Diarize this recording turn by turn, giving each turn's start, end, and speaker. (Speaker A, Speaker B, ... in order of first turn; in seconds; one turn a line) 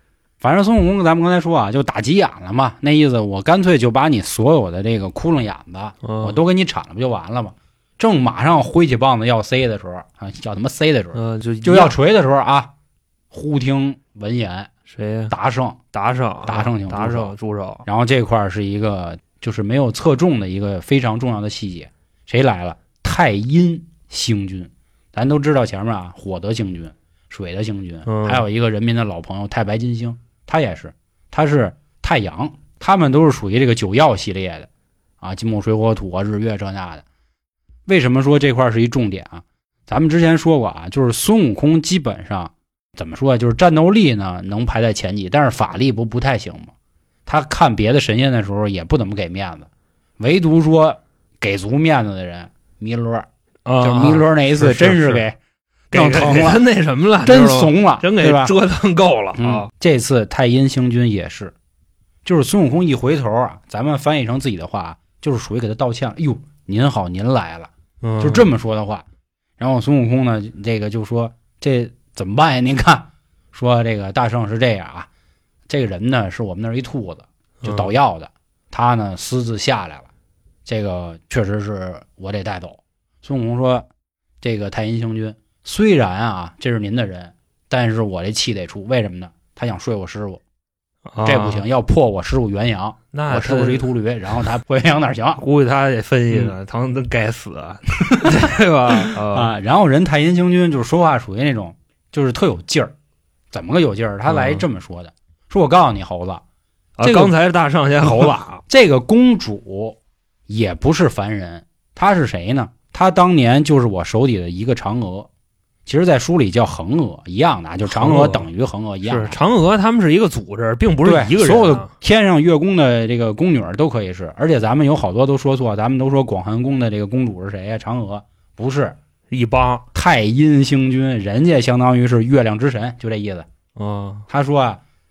Speaker A: 0.4-12.7
Speaker B: 6.0-6.4
Speaker B: 11.1-11.9
Speaker A: 13.3-14.7
Speaker B: 14.8-15.3
Speaker A: 15.3-15.8
Speaker B: 15.9-17.9
Speaker A: 16.4-17.3
Speaker A: 17.9-34.7
Speaker B: 28.1-28.4
Speaker A: 35.2-37.0
Speaker A: 37.9-46.7
Speaker A: 47.2-53.3
Speaker B: 53.6-55.2
Speaker A: 53.8-55.4
Speaker A: 55.9-56.6
Speaker B: 55.9-59.7
Speaker A: 57.2-58.5
Speaker A: 59.4-61.5
Speaker A: 62.2-69.0
Speaker B: 68.0-68.5
Speaker A: 69.6-75.1
Speaker A: 75.7-80.1
Speaker B: 77.6-77.9
Speaker A: 80.7-83.9
Speaker A: 84.4-90.4
Speaker B: 91.1-91.7
Speaker A: 91.2-95.4
Speaker B: 93.1-93.9
Speaker B: 95.4-99.5
Speaker A: 98.1-102.9
Speaker A: 103.5-106.4
Speaker B: 104.3-104.7
Speaker B: 107.0-108.6
Speaker A: 107.0-107.3
Speaker A: 108.1-110.0
Speaker A: 110.5-115.3
Speaker A: 115.8-119.4
Speaker B: 117.8-118.5
Speaker B: 119.0-121.9
Speaker A: 121.0-128.9
Speaker B: 129.3-129.8
Speaker A: 129.9-133.5
Speaker B: 133.8-134.2
Speaker A: 134.3-134.8